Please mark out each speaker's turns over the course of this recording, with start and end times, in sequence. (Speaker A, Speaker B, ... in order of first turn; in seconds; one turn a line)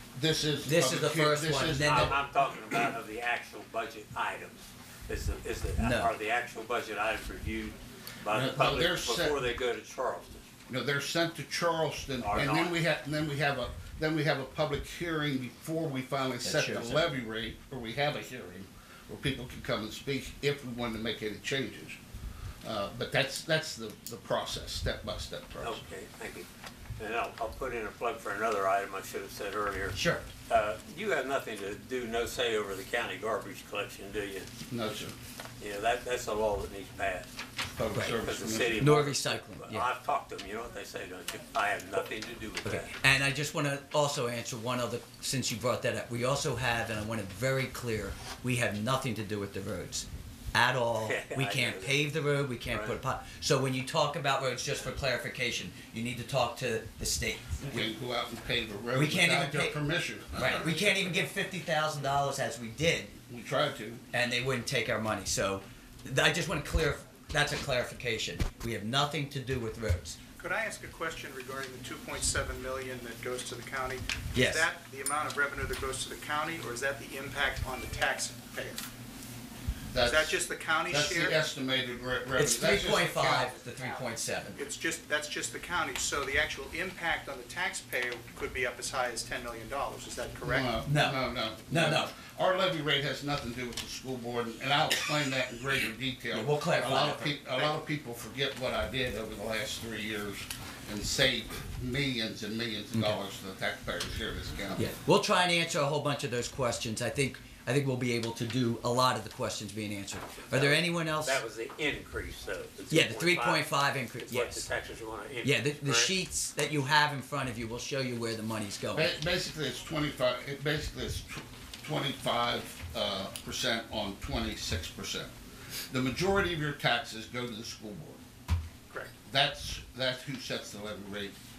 Speaker A: 0.1-2.2
Speaker B: 0.7-2.2
Speaker C: 1.8-10.4
Speaker B: 5.8-6.1
Speaker A: 8.3-9.4
Speaker A: 10.7-22.0
Speaker C: 12.2-12.8
Speaker B: 16.4-17.2
Speaker A: 22.6-25.8
Speaker C: 25.6-26.5
Speaker C: 27.0-30.0
Speaker B: 29.9-30.2
Speaker C: 30.5-34.5
Speaker A: 34.7-35.2
Speaker C: 35.6-37.3
Speaker A: 37.7-38.9
Speaker C: 38.1-42.9
Speaker B: 38.8-39.9
Speaker B: 42.6-57.8
Speaker C: 51.0-52.0
Speaker C: 52.7-53.0
Speaker A: 57.6-60.9
Speaker B: 58.9-59.8
Speaker B: 60.3-63.2
Speaker A: 63.3-64.0
Speaker B: 64.1-70.2
Speaker D: 70.4-78.8
Speaker B: 74.3-74.7
Speaker A: 79.9-80.3
Speaker D: 80.0-81.4
Speaker A: 80.9-83.5
Speaker B: 82.4-84.7
Speaker D: 84.6-90.7
Speaker A: 90.4-104.9
Speaker B: 90.8-92.1
Speaker B: 96.3-97.5
Speaker B: 102.9-103.2
Speaker B: 104.8-111.4
Speaker C: 110.4-116.2
Speaker B: 112.9-114.7
Speaker B: 115.4-119.1
Speaker A: 118.9-125.3
Speaker A: 125.9-128.2
Speaker A: 129.2-131.4